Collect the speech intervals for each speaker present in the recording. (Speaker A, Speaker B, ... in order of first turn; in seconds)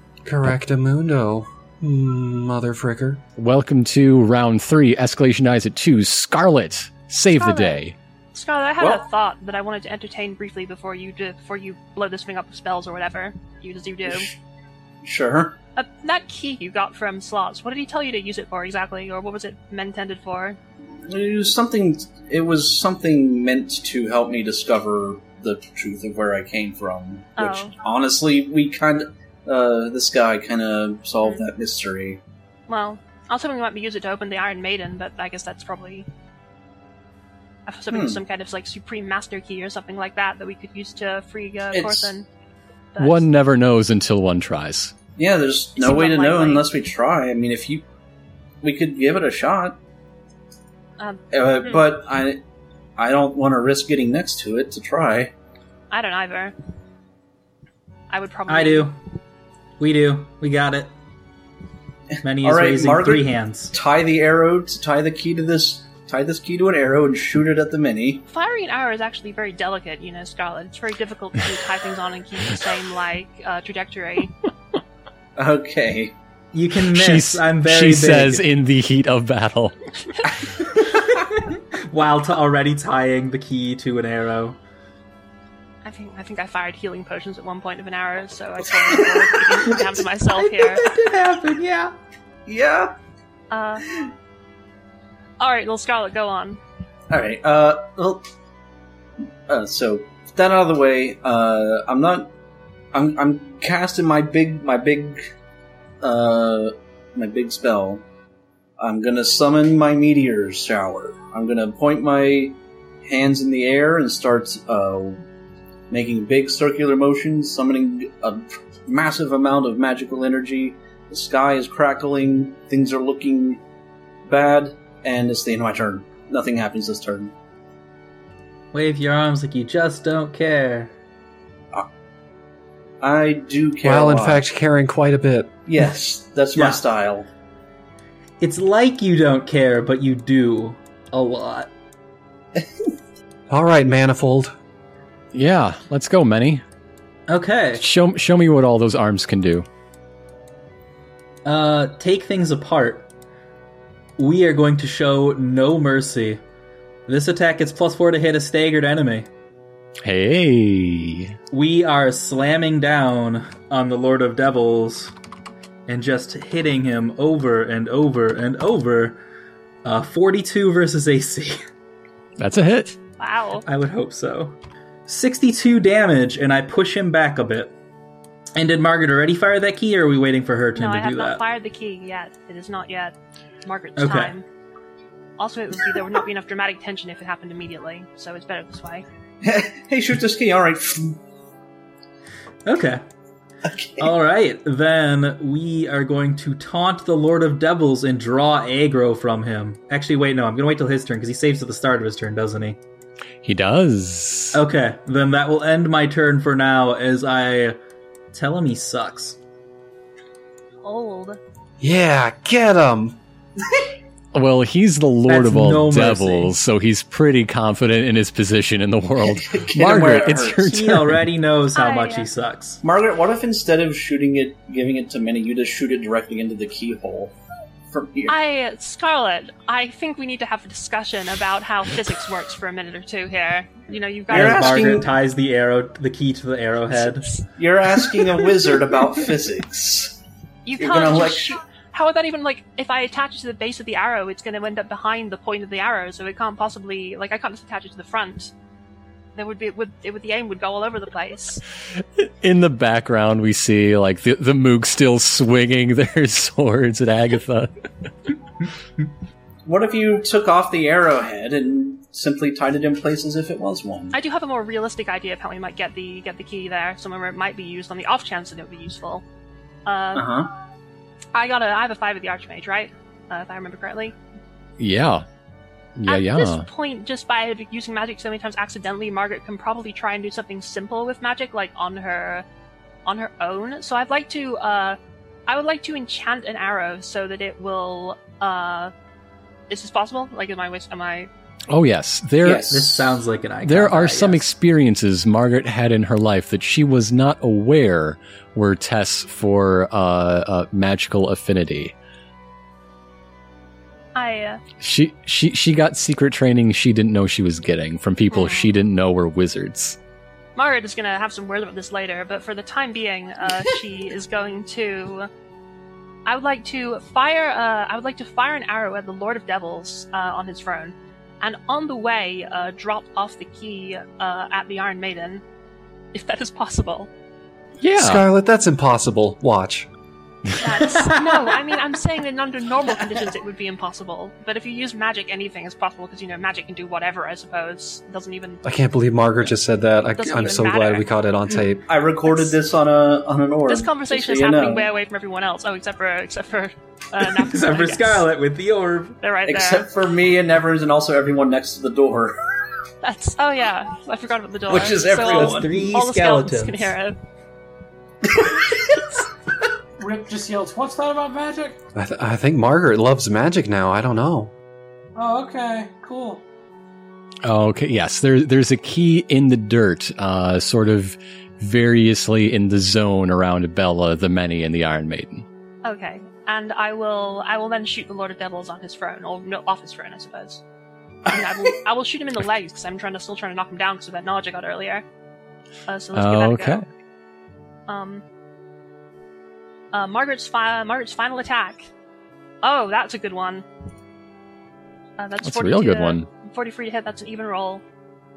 Speaker A: 0.3-3.2, 133.8-135.6, 143.5-144.5, 211.8-213.2, 328.0-329.9, 338.6-341.8, 361.9-364.5
Speaker B: 3.4-8.0, 43.0-44.9, 76.9-79.8, 145.3-146.6, 147.8-149.7, 160.0-161.3, 172.4-173.0, 203.4-204.6, 214.3-221.3, 252.2-257.7, 274.8-275.2, 276.0-276.7, 291.7-292.9, 293.6-301.9, 304.8-310.0, 327.8-328.2, 367.4-375.4, 386.1-386.8, 395.4-396.3
Speaker C: 7.4-7.8, 8.3-14.3, 15.8-20.6, 27.4-27.8, 32.7-36.1, 37.7-42.3, 42.9-43.3, 45.8-46.7, 51.0-51.8, 55.9-56.5, 58.1-58.9, 68.3-74.3, 85.8-90.8, 93.5-93.8, 95.4-96.6, 173.2-173.7, 180.8-184.4, 185.4-189.1, 210.8-211.4, 221.8-222.3, 228.3-235.0, 237.0-237.4, 240.7-248.5, 249.3-251.6, 264.1-269.2, 269.9-270.3, 271.3-274.1, 276.1-282.5, 283.1-288.9, 289.7-291.3, 304.1-304.6, 308.3-308.7, 310.6-315.3, 316.3-325.4, 326.1-327.1, 330.6-338.6, 340.2-341.0, 343.7-348.2, 349.2-349.9, 353.0-357.2, 375.8-380.6, 381.3-385.0, 385.9-386.9, 387.9-388.2, 389.9-391.9, 392.6-393.6, 395.2-397.8
Speaker D: 14.1-14.3, 15.0-15.6, 21.1-32.2, 37.9-38.2, 41.7-42.1, 45.2-47.9, 48.6-49.8, 51.3-52.4, 53.0-55.3, 62.4-68.2, 75.4-76.1, 88.9-89.3, 90.8-91.1, 92.5-92.9, 97.1-98.2, 99.5-102.3, 102.9-105.2, 106.0-108.0, 108.8-115.2, 115.9-123.6, 124.2-127.3, 133.0-134.4, 135.7-137.3, 189.4-191.2, 193.7-194.1, 219.2-220.6, 222.8-227.3, 227.9-228.4, 234.3-235.1, 237.6-240.2, 240.8-241.6, 259.7-264.2, 270.1-270.5, 292.4-293.1, 341.9-344.9, 349.5-352.4, 354.7-355.9, 358.3-358.9
Speaker E: 58.5-59.0, 59.8-60.9, 62.2-63.7, 76.5-78.5, 80.8-84.6, 90.4-92.0, 128.7-130.9, 136.6-136.8, 138.4-141.7, 147.3-147.8, 151.4-153.1, 154.2-156.4, 157.1-159.3, 161.5-165.1, 165.9-169.2, 169.8-171.6, 173.7-174.6, 175.1-177.7, 178.6-181.4, 184.0-184.4, 192.7-193.0, 194.0-202.8, 204.5-207.8, 208.3-209.4, 215.3-216.5, 220.7-222.8, 234.3-237.3, 292.7-294.5, 330.8-331.7, 333.0-333.3, 347.2-349.2, 355.3-356.9
Speaker F: 360.0-361.8, 365.2-366.4